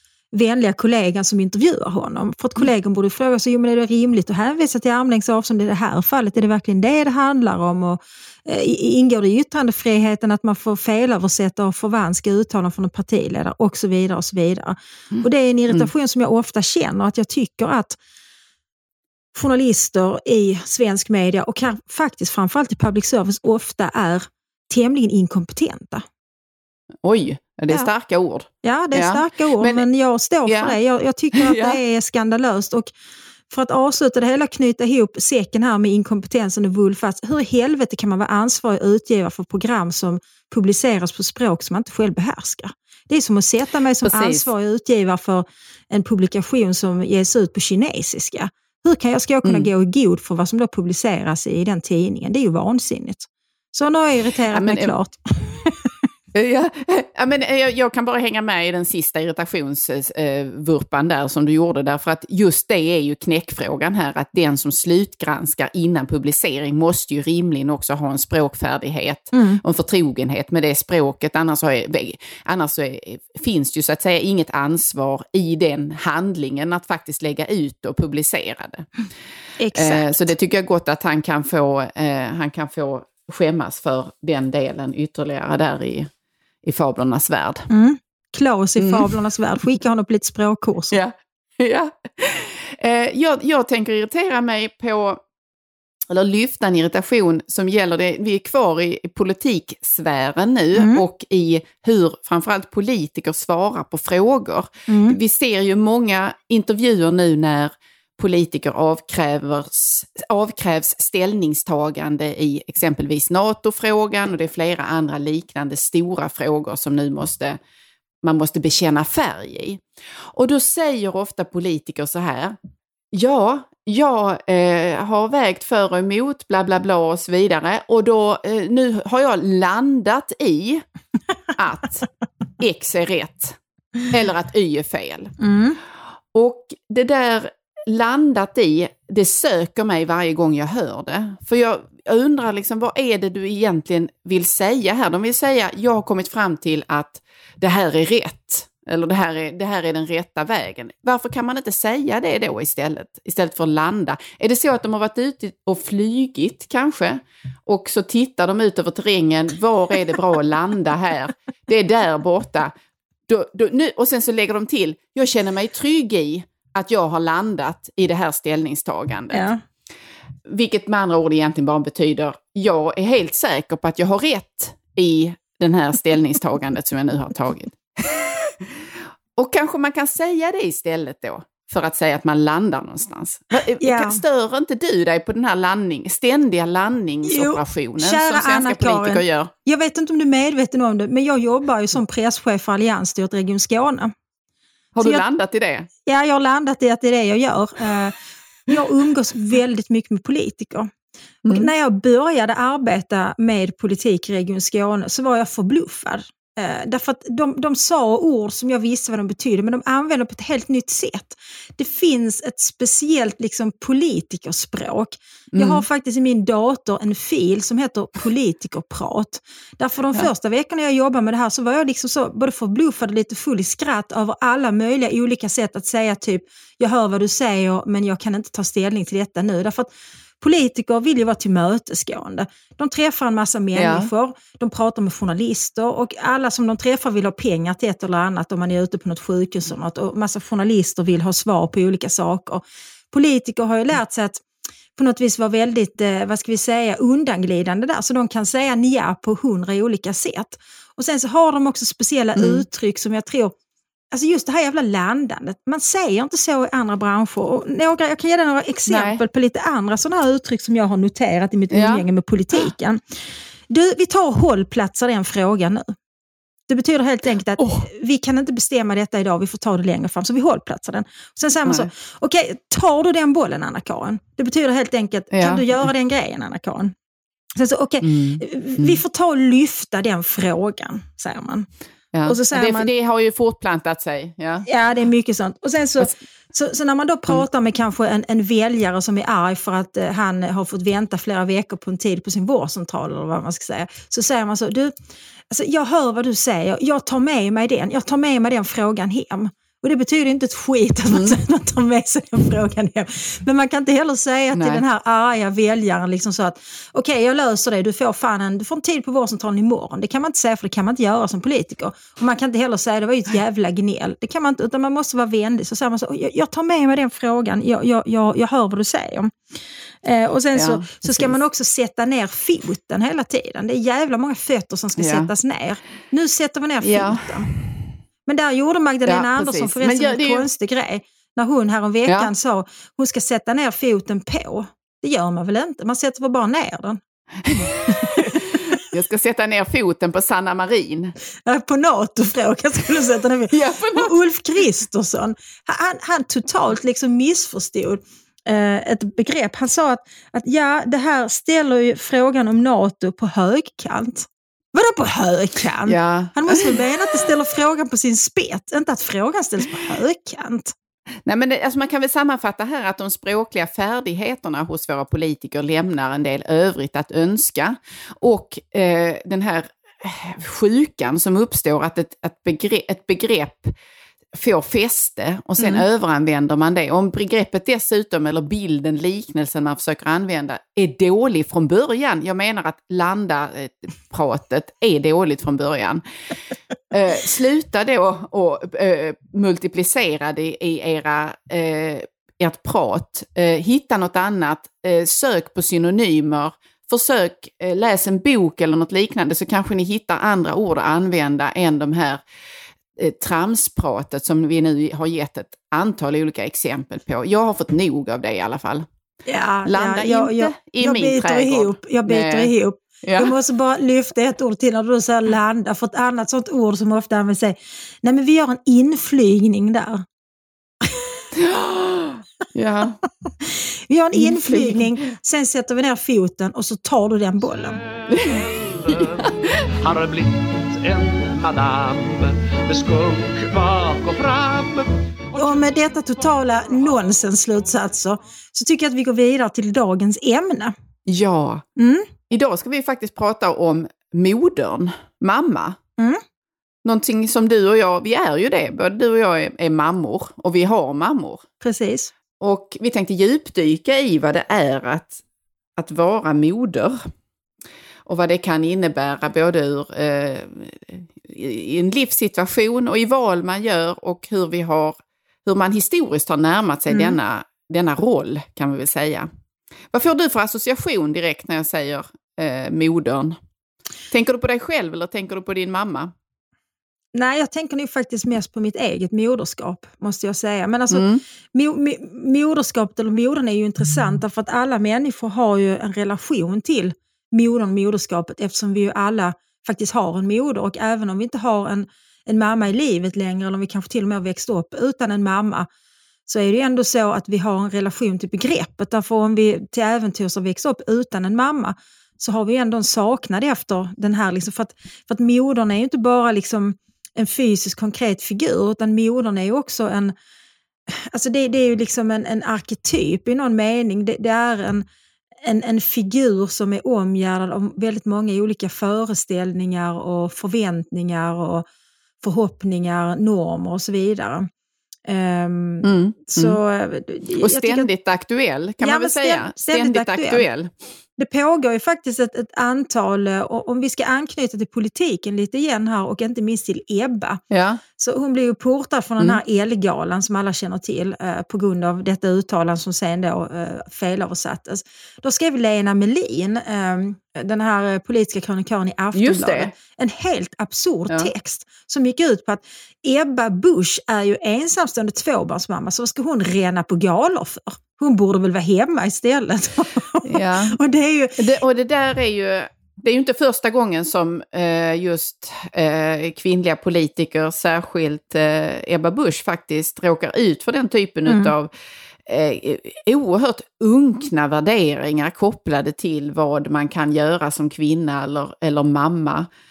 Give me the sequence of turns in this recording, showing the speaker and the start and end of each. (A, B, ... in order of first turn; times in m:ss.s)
0:00.3-0:18.0 A
0:15.1-0:15.9 B
0:19.3-0:26.0 A
0:27.0-0:29.9 B
0:28.6-0:32.9 A
0:30.5-0:30.8 B
0:31.3-0:31.8 B
0:33.5-0:55.8 A
0:44.0-0:44.5 B
0:49.4-0:49.7 B
0:54.5-0:55.0 B
0:56.3-1:18.9 B
1:09.3-1:09.6 A
1:19.6-1:20.1 A
1:19.8-1:26.1 B
1:26.6-1:27.7 B
1:27.7-1:31.0 A
1:28.8-1:29.1 B
1:30.9-1:35.2 B
1:36.1-1:57.6 B
1:40.8-1:41.0 A
1:44.9-1:45.2 A
1:58.2-1:59.8 B
2:00.3-2:02.6 B
2:03.1-2:10.8 B
2:11.6-2:12.1 B
2:12.6-2:13.6 B
2:14.1-2:15.3 B
2:15.4-2:15.8 A
2:16.3-2:42.7 B
2:43.3-2:49.5 B
2:49.3-2:49.6 A
2:50.5-2:58.6 B
2:59.4-3:09.5 B
3:03.8-3:04.2 A
3:07.3-3:14.1 A
3:15.0-3:15.9 B
3:16.1-3:18.1 A
3:18.7-3:20.9 A
3:21.4-3:21.7 B
3:21.5-4:04.4 A
3:35.5-3:35.8 B
3:53.8-3:54.1 B
4:05.0-4:13.6 A
4:12.4-4:12.6 B
4:14.1-4:23.0 A
4:18.9-4:19.2 B
4:21.7-4:22.7 B
4:23.7-4:25.9 A
4:26.7-4:36.9 A
4:27.6-4:27.9 B
4:35.3-4:35.8 B
4:37.6-4:41.7 A
4:38.0-4:39.0 B
4:42.1-4:44.7 B
4:42.3-4:42.9 A
4:44.7-4:54.9 A
4:55.5-5:19.3 A
5:01.1-5:01.4 B
5:04.5-5:04.8 B
5:20.0-5:27.5 A
5:20.5-5:21.4 B
5:25.0-5:25.3 B
5:26.8-5:27.6 B
5:28.3-5:37.0 A
5:29.1-5:30.5 B
5:37.4-5:41.2 B
5:37.9-5:38.8 A
5:41.5-6:00.7 A
5:43.5-5:44.1 B
5:55.9-5:56.8 B
6:01.3-6:13.7 B
6:14.3-6:26.0 B
6:15.6-6:15.8 A
6:26.9-6:42.2 B
6:43.0-6:48.8 B
6:49.3-7:00.0 A
6:49.7-6:52.5 B
6:53.0-6:53.3 B
7:01.4-7:03.0 B
7:03.9-7:07.8 A
7:04.2-7:04.9 B
7:08.1-7:09.3 B
7:08.2-7:15.8 C
7:15.4-7:20.7 A
7:21.1-7:21.6 B
7:21.8-7:22.1 A
7:22.3-7:25.8 B
7:26.8-7:31.4 B
7:31.6-7:32.1 A
7:32.4-7:35.2 B
7:35.8-7:37.0 B
7:38.1-7:49.3 B
7:46.9-7:47.2 A
7:49.9-7:53.4 B
7:54.1-7:56.1 B
7:57.1-8:15.7 A
8:00.9-8:01.2 B
8:16.3-8:30.1 A
8:31.1-8:34.8 A
8:35.4-8:41.6 A
8:42.2-8:44.5 A
8:45.1-8:47.9 A
8:45.8-8:46.6 B
8:47.3-8:50.7 B
8:48.8-8:50.4 A
8:51.2-8:57.4 A
8:57.5-8:57.8 B
8:58.0-9:21.4 A
9:09.1-9:09.7 B
9:20.2-9:20.8 B
9:21.4-9:31.7 B
9:31.3-9:31.5 A
9:32.3-9:39.5 B